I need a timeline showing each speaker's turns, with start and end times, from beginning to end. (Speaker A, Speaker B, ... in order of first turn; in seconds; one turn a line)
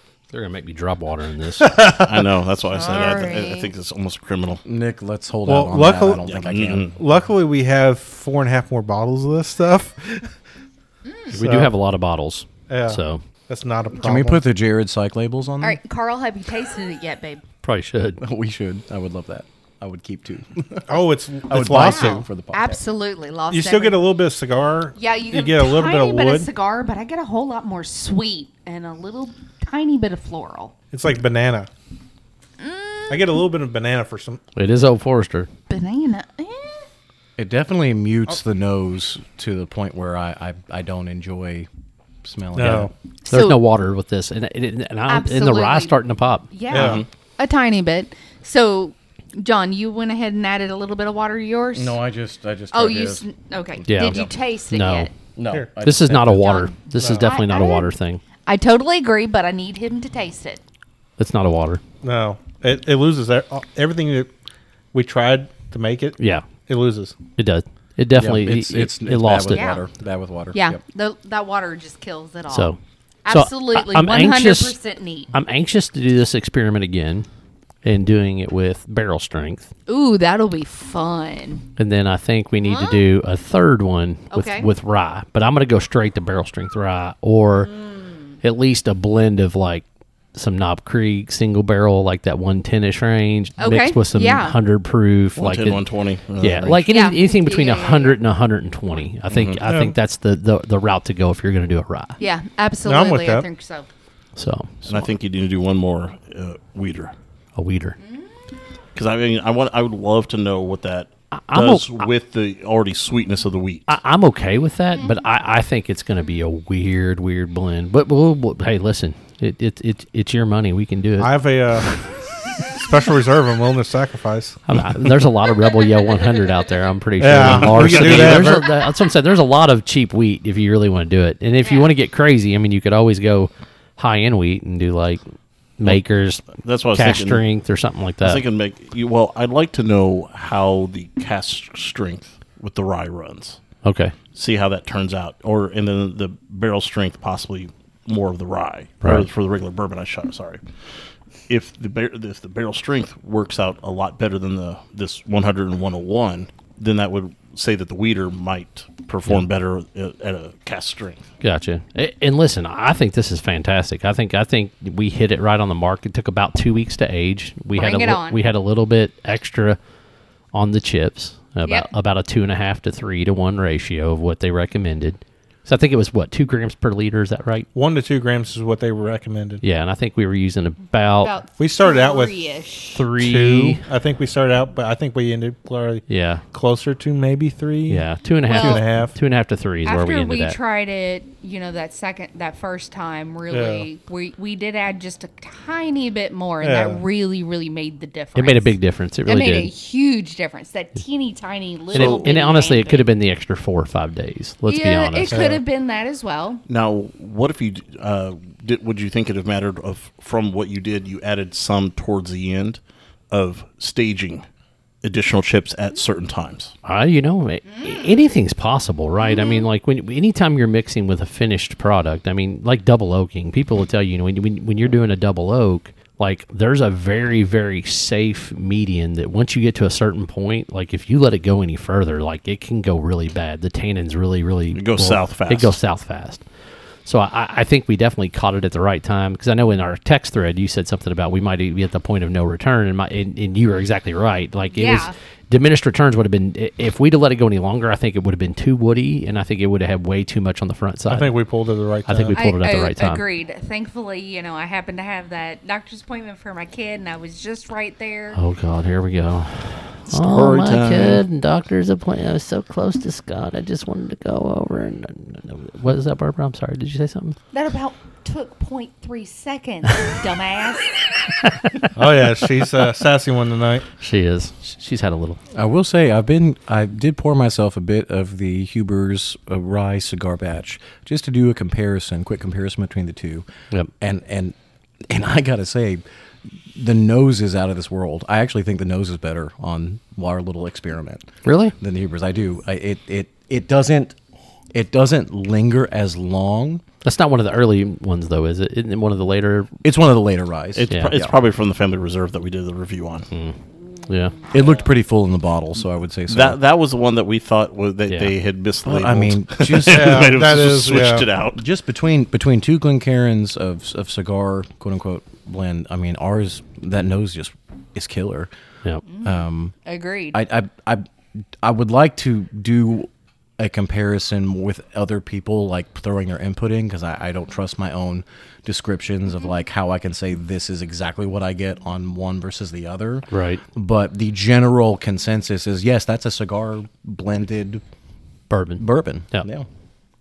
Speaker A: 0.3-1.8
Speaker B: 1.6-2.2
Speaker C: 2.0-4.6
Speaker D: 2.7-3.7
Speaker E: 4.6-6.9
Speaker B: 5.5-6.2
Speaker C: 6.2-6.9
Speaker B: 6.9-10.3
Speaker D: 11.0-11.3
Speaker B: 11.3-11.7
Speaker A: 11.3-13.2
Speaker B: 12.7-14.4
Speaker E: 14.0-15.8
Speaker D: 15.6-17.4
Speaker A: 17.6-18.2
Speaker E: 18.2-20.9
Speaker B: 20.9-22.2
Speaker E: 21.5-22.8
Speaker D: 21.7-24.1
Speaker B: 23.5-26.5
Speaker D: 24.9-30.8
Speaker B: 30.9-31.7
Speaker D: 32.6-33.5
Speaker B: 33.1-34.4
Speaker A: 34.5-35.5
Speaker D: 35.7-36.9
Speaker E: 37.4-41.7
Speaker E: 42.2-42.9
Speaker B: 42.5-42.9
Speaker D: 43.2-43.6
Speaker A: 43.3-46.5
Speaker D: 45.1-52.0
Speaker B: 46.7-47.0
Speaker C: 46.7-47.1
Speaker E: 51.7-53.3
Speaker D: 52.7-55.1
Speaker A: 53.9-55.1
Speaker E: 53.9-54.3
Speaker E: 55.4-56.5
Speaker A: 55.8-58.2
Speaker D: 56.3-57.9
Speaker B: 57.0-57.3
Speaker D: 58.5-60.6
Speaker A: 61.2-61.8
Speaker B: 62.0-64.3
Speaker B: 64.9-67.2
Speaker A: 66.2-66.5
Speaker A: 67.4-69.7
Speaker E: 68.1-70.8
Speaker D: 69.5-69.8
Speaker D: 70.5-72.7
Speaker A: 72.5-74.8
Speaker D: 73.2-75.3
Speaker A: 75.3-77.3
Speaker A: 77.8-79.7
Speaker D: 79.9-81.7
Speaker A: 81.8-87.8
Speaker D: 82.6-83.0
Speaker D: 84.3-84.7
Speaker D: 87.6-88.3
Speaker A: 88.4-95.8
Speaker D: 93.6-94.6
Speaker C: 95.3-96.8
Speaker A: 96.4-102.2
Speaker D: 96.8-98.2
Speaker C: 99.3-99.6
Speaker B: 99.6-99.9
Speaker D: 102.2-103.9
Speaker B: 102.8-103.5
Speaker A: 104.3-105.1
Speaker C: 104.8-107.1
Speaker A: 107.5-108.0
Speaker D: 108.0-108.5
Speaker C: 108.9-113.9
Speaker A: 111.3-112.1
Speaker A: 113.9-121.3
Speaker B: 121.2-121.9
Speaker A: 121.8-122.2
Speaker B: 122.6-124.6
Speaker A: 124.7-135.2
Speaker B: 127.2-128.6
Speaker C: 127.4-128.6
Speaker D: 131.6-131.9
Speaker A: 135.8-138.4
Speaker C: 136.6-137.4
Speaker C: 138.2-143.6
Speaker A: 143.8-144.1
Speaker C: 144.3-161.2
Speaker A: 161.4-169.8
Speaker D: 167.7-168.4
Speaker A: 170.5-177.7
Speaker D: 171.6-171.9
Speaker B: 177.7-179.6
Speaker A: 179.6-181.3
Speaker D: 181.2-183.1
Speaker B: 181.6-182.5
Speaker A: 182.9-183.8
Speaker B: 183.1-189.2
Speaker A: 186.1-186.4
Speaker A: 187.9-190.6
Speaker D: 188.4-188.9
Speaker D: 189.8-203.1
Speaker B: 193.5-193.9
Speaker B: 196.6-197.0
Speaker A: 198.3-199.7
Speaker C: 201.9-202.3
Speaker A: 201.9-205.5
Speaker D: 204.7-206.6
Speaker B: 205.3-205.6
Speaker C: 206.7-214.4
Speaker C: 215.0-216.7
Speaker A: 216.8-236.4
Speaker D: 217.7-218.2
Speaker D: 219.2-219.7
Speaker C: 234.7-235.8
Speaker A: 237.1-251.3
Speaker D: 244.7-245.1
Speaker B: 251.1-252.4
Speaker A: 252.1-253.2
Speaker D: 252.3-258.4
Speaker A: 258.3-267.4
Speaker C: 260.1-261.2
Speaker D: 267.5-271.1
Speaker A: 271.4-271.9
Speaker B: 271.9-273.9
Speaker A: 274.0-275.4
Speaker E: 275.5-283.4
Speaker E: 284.0-284.5
Speaker E: 285.1-286.0
Speaker E: 286.7-294.1
Speaker A: 291.4-291.7
Speaker E: 294.7-296.8
Speaker A: 297.0-299.7
Speaker E: 299.8-301.4
Speaker C: 300.7-303.3
Speaker A: 303.3-304.4
Speaker E: 304.5-306.6
Speaker C: 306.3-311.6
Speaker A: 308.1-308.3
Speaker E: 308.8-310.3
Speaker B: 309.9-311.3
Speaker E: 311.5-318.5
Speaker D: 319.1-320.4
Speaker E: 319.2-319.7
Speaker E: 320.3-321.1
Speaker E: 321.6-337.8
Speaker A: 333.3-333.6
Speaker A: 338.5-339.5
Speaker E: 338.8-339.7